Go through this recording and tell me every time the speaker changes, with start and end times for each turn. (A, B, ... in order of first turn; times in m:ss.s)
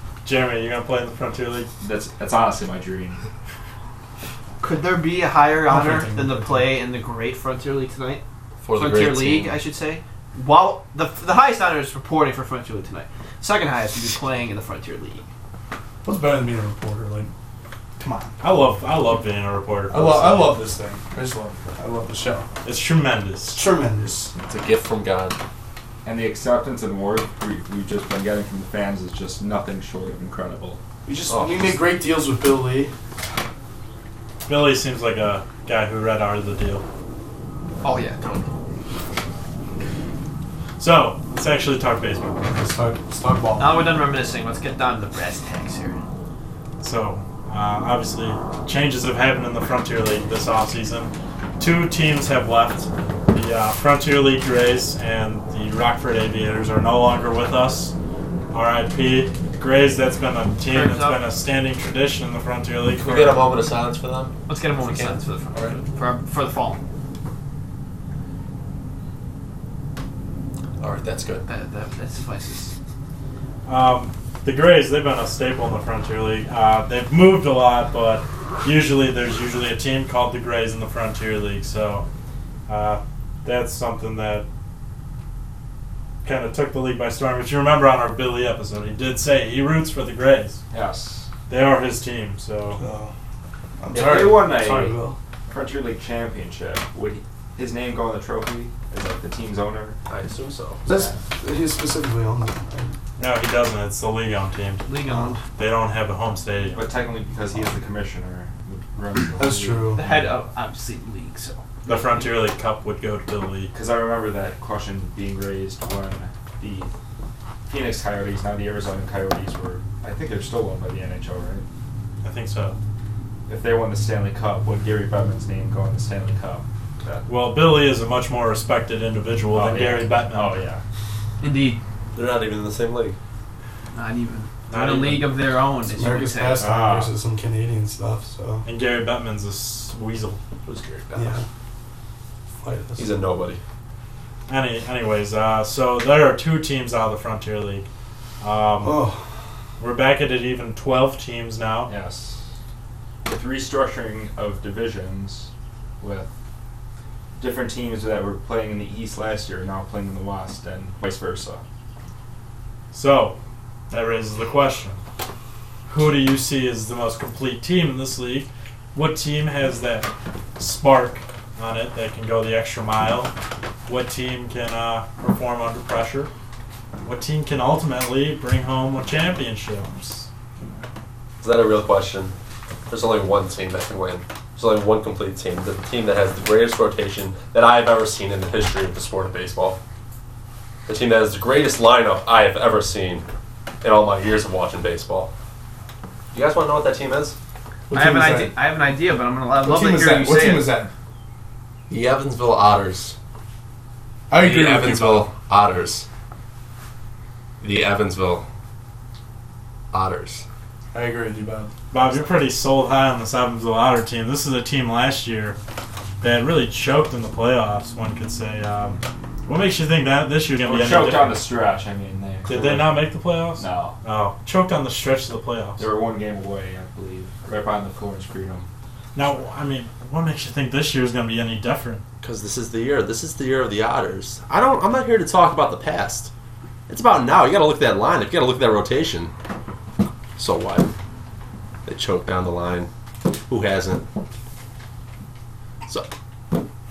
0:00.2-0:01.7 A
0:01.8-0:03.2 B
0:04.6-0:08.2 C
0:05.7-0:06.7 D
0:08.6-0:09.6 E
0:08.7-0:15.2 C
0:16.0-0:17.3 D
0:18.0-0:18.4 D
0:18.4-0:20.6 A
0:19.9-0:22.5 D
0:22.6-0:23.6 A
0:23.5-0:24.3 D
0:24.4-0:25.4 E
0:26.0-0:30.8 B
0:31.0-0:32.9 D
0:31.3-0:31.9 E
0:34.5-0:36.8 A
0:37.8-0:38.5 C
0:40.8-0:42.5 A
0:42.4-0:43.8 D
0:43.6-0:46.0 C
0:46.8-0:57.9 A
0:58.5-1:03.4 A
1:00.7-1:01.2 C
1:03.0-1:05.8 E
1:04.5-1:06.8 C
1:10.8-1:11.4 E
1:11.5-1:12.7 C
1:13.7-1:22.1 A
1:22.7-1:24.4 A
1:26.2-1:30.6 A
1:30.7-1:31.3 B
1:31.5-1:32.8 A
1:32.8-1:33.1 D
1:33.8-1:35.2 D
1:33.9-1:35.0 B
1:35.5-1:40.0 B
1:40.1-1:40.8 E
1:40.9-1:43.0 D
1:40.9-1:41.2 B
1:43.2-1:44.9 A
1:44.9-1:45.4 C
1:45.6-1:46.8 A
1:46.7-1:50.3 B
1:49.4-1:50.2 D
1:50.0-1:52.3 C
1:51.8-1:53.7 A
1:53.7-1:56.9 B
1:57.7-2:01.6 B
2:02.2-2:02.8 A
2:03.5-2:07.3 B
2:07.3-2:10.7 A
2:09.5-2:10.8 B
2:11.4-2:11.8 C
2:12.1-2:13.2 E
2:13.9-2:16.6 C
2:14.7-2:15.3 A
2:15.9-2:18.6 D
2:16.6-2:17.1 B
2:18.6-2:20.4 A
2:20.6-2:21.4 E
2:21.2-2:21.5 D
2:22.6-2:23.1 D
2:23.0-2:23.6 E
2:24.5-2:27.9 A
2:28.4-2:29.1 A
2:28.8-2:29.4 D
2:29.8-2:31.9 A
2:31.9-2:32.5 B
2:33.2-2:36.3 B
2:37.4-2:41.6 B
2:42.9-2:43.4 A
2:43.9-2:45.0 A
2:45.9-2:53.3 A
2:53.9-2:56.3 A
2:57.0-3:00.3 A
3:01.4-3:02.4 E
3:02.9-3:09.8 E
3:10.9-3:13.3 E
3:13.8-3:15.3 E
3:16.3-3:17.4 E
3:17.9-3:18.5 D
3:17.9-3:20.7 C
3:19.6-3:20.9 D
3:21.9-3:23.2 E
3:24.3-3:25.3 D
3:24.4-3:26.1 E
3:27.6-3:28.5 E
3:29.9-3:30.4 E
3:30.9-3:31.7 D
3:31.9-3:35.6 A
3:36.2-3:41.4 A
3:40.6-3:43.0 B
3:42.4-3:45.8 A
3:43.6-3:44.0 B
3:45.8-3:48.7 B
3:49.2-3:52.0 A
3:52.2-3:56.3 E
3:56.9-3:59.3 E
4:00.4-4:00.9 E
4:01.8-4:04.0 E